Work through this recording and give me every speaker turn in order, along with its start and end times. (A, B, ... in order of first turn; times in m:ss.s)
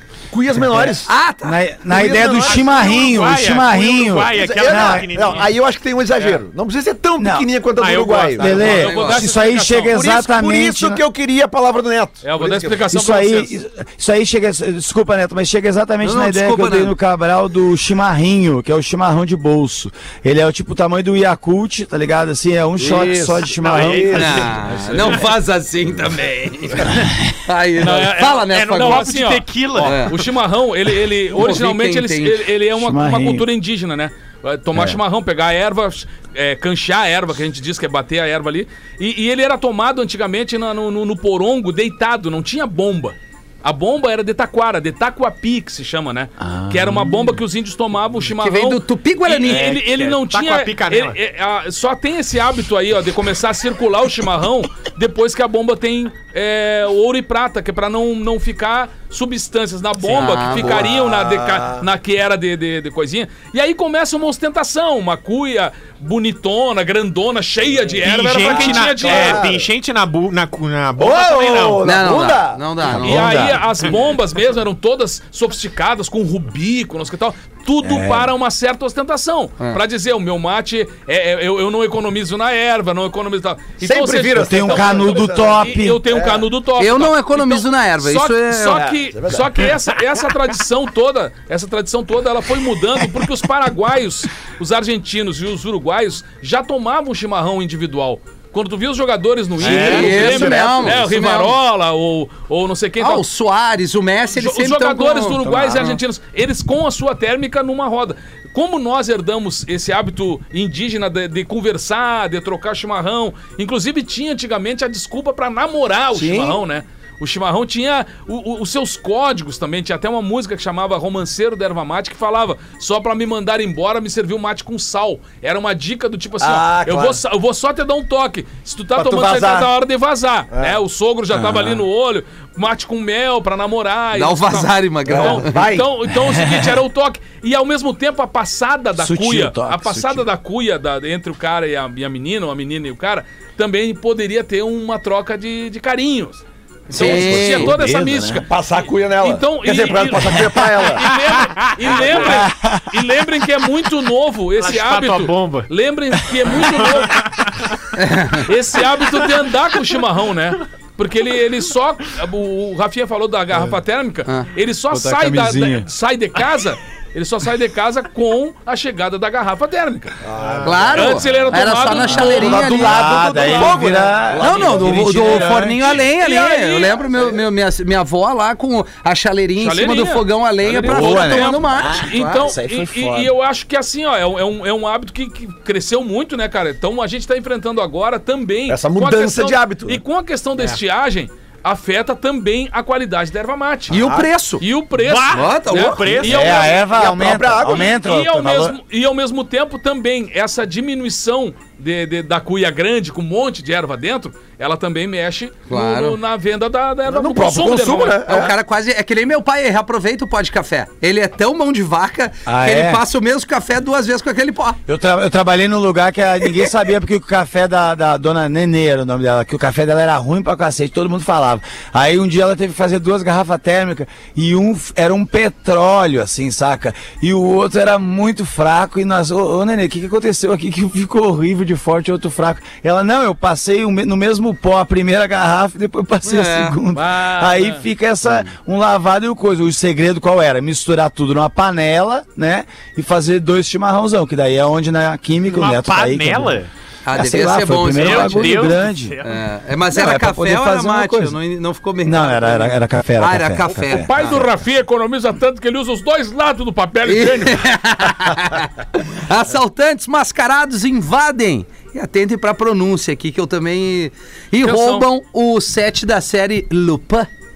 0:00.3-0:01.1 A
0:00.6-0:05.1 B
0:01.0-0:01.6 C
0:01.9-0:05.5 D
0:01.9-0:02.7 A
0:04.3-0:08.8 A
0:07.2-0:07.5 B
0:07.8-0:09.0 D
0:08.4-0:11.0 B
0:08.6-0:10.0 E
0:08.8-0:09.2 C
0:09.9-0:12.8 A
0:12.2-0:13.5 E
0:12.9-0:24.4 B
0:16.0-0:16.9 C
0:22.8-0:24.5 A
0:23.6-0:25.2 D
0:24.1-0:29.1 C
0:24.6-0:25.3 E
0:27.8-1:09.4 E
0:28.4-0:30.3 D
0:29.8-0:30.2 C
0:31.3-0:32.4 C
0:32.8-0:33.5 B
0:34.7-0:35.0 B
0:46.4-0:47.4 B
0:48.4-0:49.8 C
0:49.5-0:51.2 D
1:00.0-1:00.9 C
1:00.5-1:01.8 A
1:08.0-1:11.9 D
1:08.3-1:09.7 A
1:11.0-1:13.6 A
1:11.8-1:13.5 C
1:12.9-1:13.6 B
1:12.9-1:43.2 E
1:17.8-1:18.3 B
1:23.8-1:26.5 A
1:24.4-1:26.0 B
1:26.8-1:28.8 C
1:28.7-1:29.7 A
1:39.6-1:41.1 A
1:39.6-1:41.6 C
1:43.0-1:46.0 C
1:44.3-2:37.5 E
1:45.5-1:45.8 B
1:56.1-1:56.6 A
2:06.4-2:07.2 A
2:09.0-2:09.7 A
2:10.5-2:10.8 A
2:11.3-2:11.8 B
2:14.1-2:15.5 C
2:15.1-2:15.9 A
2:16.1-2:16.8 B
2:19.0-2:20.3 B
2:26.9-2:27.7 C
2:26.9-2:28.4 B
2:28.4-2:31.1 A
2:31.3-2:32.1 D
2:31.9-2:32.3 A
2:32.2-2:32.9 B
2:34.6-2:35.7 D
2:36.6-2:37.7 D
2:38.0-2:38.5 C
2:38.3-2:50.2 E
2:44.9-2:45.9 B
2:50.2-2:51.7 A
2:50.4-2:50.9 D
2:50.6-3:02.5 C
2:50.9-2:52.9 E
2:52.0-2:56.0 B
2:52.4-2:55.5 A
2:55.9-2:57.0 E
2:59.6-3:14.0 E
3:00.8-3:03.3 B
3:08.7-3:10.0 A
3:13.9-3:14.6 C
3:13.9-3:14.3 A
3:14.6-3:16.8 E
3:15.0-3:16.8 D
3:15.3-3:16.2 C
3:16.2-3:18.8 B
3:16.8-3:17.9 A
3:17.6-3:28.4 E
3:25.7-3:26.2 C
3:27.1-3:28.6 A
3:28.3-3:34.8 C
3:32.5-3:33.0 B
3:34.9-4:06.6 B
3:56.2-3:56.8 C
3:56.9-3:57.8 E
4:05.4-4:06.7 D
4:07.0-4:14.4 C
4:07.1-4:09.2 B
4:08.0-4:09.4 D
4:09.9-4:11.4 B
4:12.0-4:14.1 B
4:13.8-4:17.7 E
4:17.1-4:27.3 C
4:24.6-4:25.1 E